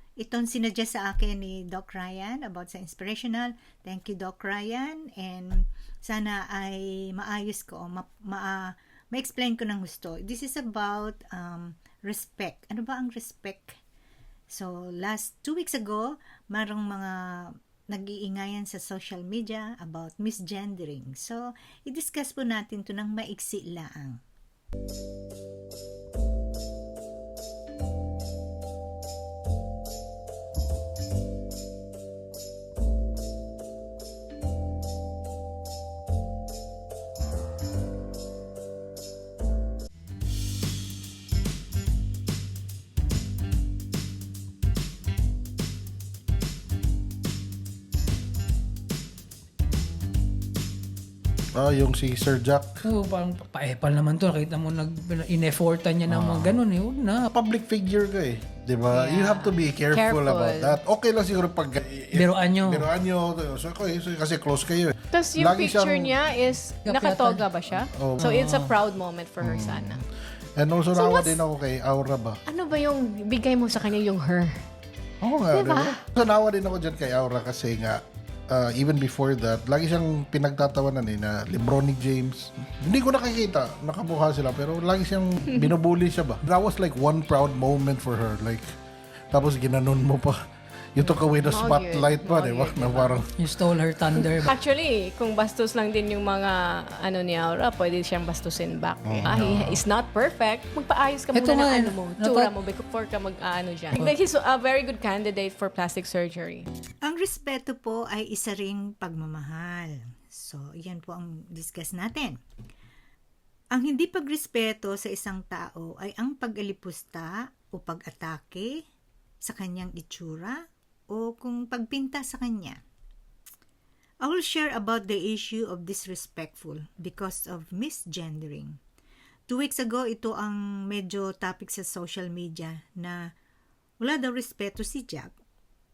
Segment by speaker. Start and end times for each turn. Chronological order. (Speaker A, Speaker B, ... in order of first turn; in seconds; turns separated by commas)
Speaker A: 0.2-13.8, Speaker A: 14.5-24.2, Speaker B: 51.5-52.7, Speaker C: 52.8-57.3, Speaker B: 56.1-56.6, Speaker B: 57.3-66.3, Speaker D: 58.9-60.8, Speaker C: 62.1-62.9, Speaker D: 65.1-70.0, Speaker C: 66.8-67.6, Speaker B: 67.9-68.6, Speaker C: 68.2-68.7, Speaker B: 69.4-70.0, Speaker B: 70.6-72.4, Speaker D: 70.9-71.4, Speaker D: 72.5-74.6, Speaker B: 75.2-88.7, Speaker D: 75.5-76.0, Speaker B: 89.3-90.4, Speaker B: 90.9-93.3, Speaker D: 91.0-93.2, Speaker C: 93.4-94.5, Speaker D: 94.2-106.7, Speaker B: 99.0-99.8, Speaker C: 101.3-102.5, Speaker A: 107.0-112.4, Speaker A: 113.7-118.8, Speaker A: 119.4-122.8, Speaker A: 124.2-128.8, Speaker A: 129.5-133.2, Speaker A: 134.0-135.3